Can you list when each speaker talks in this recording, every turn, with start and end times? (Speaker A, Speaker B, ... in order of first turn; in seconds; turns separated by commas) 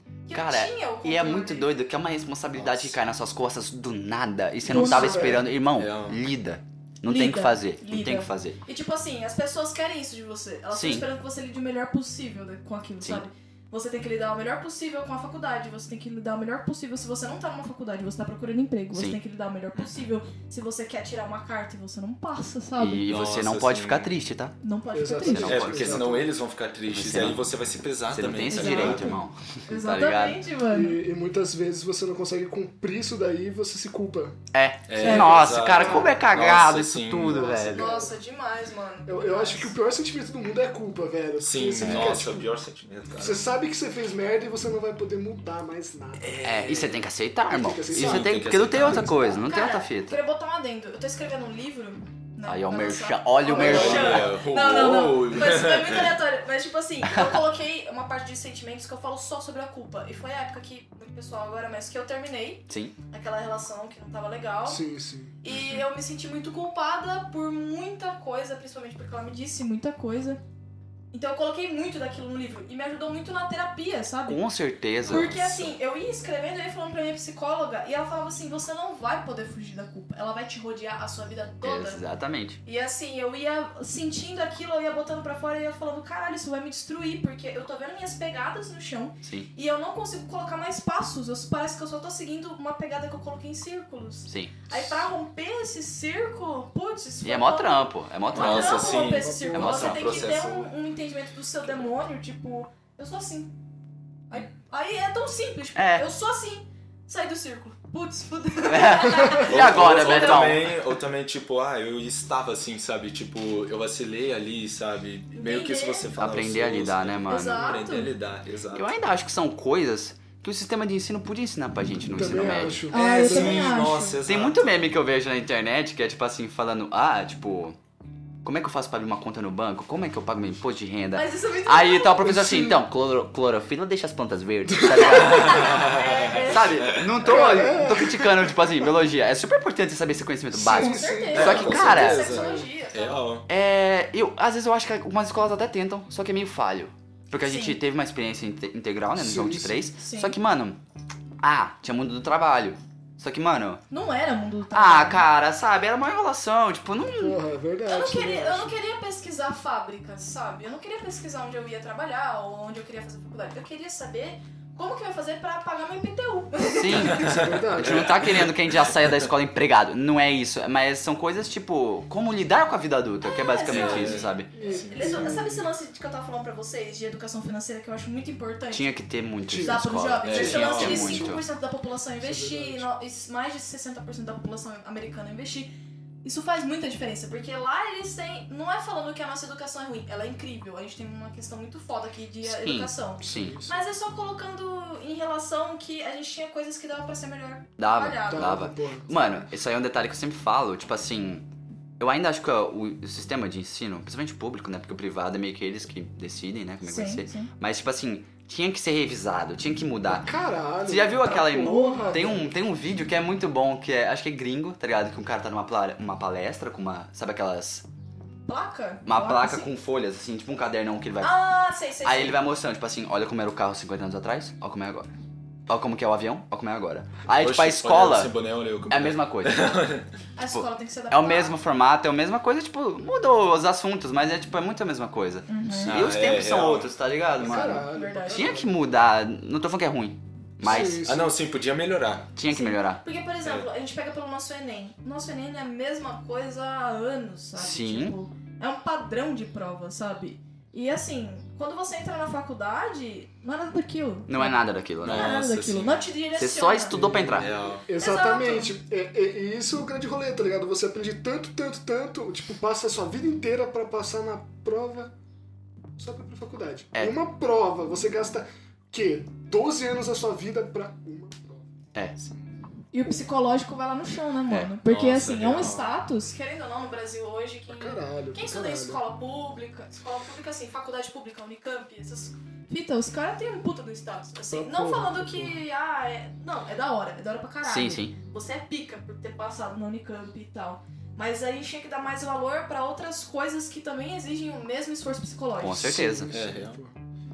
Speaker A: 0.3-1.7, Speaker B: 0.3-8.6, Speaker C: 2.5-3.0, Speaker A: 4.6-5.4, Speaker D: 4.7-5.5, Speaker C: 5.7-6.2, Speaker A: 7.1-23.1, Speaker B: 10.7-11.1, Speaker B: 18.9-19.2, Speaker C: 19.7-20.1, Speaker B: 22.8-24.6, Speaker C: 23.1-24.1, Speaker A: 24.6-25.6, Speaker D: 24.9-26.3, Speaker B: 25.2-26.1, Speaker C: 25.4-29.2, Speaker B: 26.9-27.4, Speaker B: 28.1-30.4, Speaker A: 28.5-31.0, Speaker D: 30.7-34.4, Speaker B: 34.5-38.0, Speaker C: 34.9-37.7, Speaker A: 35.0-35.5, Speaker D: 35.7-36.2, Speaker D: 37.3-38.1, Speaker A: 37.7-39.7, Speaker D: 39.0-42.5, Speaker C: 41.4-43.5, Speaker B: 41.8-42.1, Speaker D: 43.2-46.8, Speaker C: 46.2-47.0, Speaker B: 46.4-50.2, Speaker D: 47.5-49.4, Speaker C: 47.9-49.1, Speaker A: 49.3-64.8, Speaker B: 52.5-54.3, Speaker D: 53.4-54.2, Speaker C: 53.5-56.2, Speaker B: 57.1-57.4, Speaker B: 62.7-62.9, Speaker D: 64.6-65.4, Speaker A: 65.4-70.4, Speaker A: 71.1-74.4, Speaker B: 74.3-75.5, Speaker A: 75.0-82.0, Speaker C: 75.1-75.7, Speaker B: 81.6-82.6, Speaker A: 82.6-103.5, Speaker B: 89.2-89.5, Speaker B: 94.2-94.6, Speaker B: 97.2-100.2, Speaker C: 98.3-100.7, Speaker D: 98.9-99.8, Speaker A: 104.3-110.5, Speaker B: 105.8-106.0, Speaker B: 108.6-110.7, Speaker C: 109.3-118.9, Speaker A: 115.3-116.1, Speaker B: 116.2-117.7, Speaker A: 117.3-118.1, Speaker B: 118.7-122.8, Speaker D: 122.1-123.9, Speaker A: 122.9-124.2, Speaker C: 122.9-124.9, Speaker B: 124.2-127.8, Speaker B: 128.4-142.4, Speaker A: 131.1-132.3, Speaker D: 132.2-132.8, Speaker D: 134.7-135.4, Speaker C: 135.1-137.4, Speaker A: 135.1-136.9, Speaker D: 137.2-138.7, Speaker D: 140.5-142.7, Speaker A: 140.7-143.2, Speaker C: 141.3-143.5, Speaker B: 143.5-150.8, Speaker A: 147.4-147.8, Speaker D: 149.1-149.9, Speaker A: 150.0-150.4, Speaker B: 151.4-153.8, Speaker A: 153.9-155.2, Speaker B: 154.7-157.4, Speaker D: 157.2-158.8, Speaker A: 157.9-167.3, Speaker B: 166.7-174.5, Speaker C: 167.1-169.2, Speaker D: 167.2-168.1, Speaker A: 173.2-179.0, Speaker C: 173.7-174.8, Speaker D: 174.5-175.7, Speaker B: 178.7-181.4, Speaker D: 179.5-181.4, Speaker A: 179.6-185.7, Speaker C: 180.2-181.1, Speaker D: 182.2-182.9, Speaker A: 186.2-198.6, Speaker B: 192.4-193.6, Speaker D: 193.2-193.8, Speaker B: 197.8-201.5, Speaker D: 198.3-199.2, Speaker B: 202.0-210.3, Speaker A: 206.8-207.5, Speaker D: 210.1-212.5, Speaker B: 210.8-217.8, Speaker A: 211.5-212.1, Speaker A: 218.5-219.7, Speaker B: 219.1-221.4, Speaker A: 221.2-222.4, Speaker B: 222.0-225.1, Speaker B: 225.7-228.3, Speaker C: 227.3-230.1, Speaker B: 228.9-229.7, Speaker A: 230.3-231.6, Speaker B: 230.5-241.0, Speaker A: 235.5-236.0, Speaker C: 235.8-236.9, Speaker D: 237.4-238.7, Speaker A: 237.6-238.6, Speaker D: 240.6-241.3, Speaker C: 240.6-242.3, Speaker B: 242.3-243.0, Speaker A: 242.5-257.1, Speaker B: 247.6-248.2, Speaker B: 254.3-255.4, Speaker C: 255.0-256.0, Speaker B: 256.4-257.5, Speaker C: 256.9-257.9, Speaker D: 257.9-265.1, Speaker A: 257.9-258.8, Speaker D: 266.0-271.7, Speaker A: 272.9-296.2, Speaker C: 274.8-275.9, Speaker D: 277.7-279.0, Speaker D: 284.5-285.6, Speaker B: 287.6-288.1, Speaker B: 295.6-296.3, Speaker D: 295.7-297.0, Speaker C: 296.3-296.8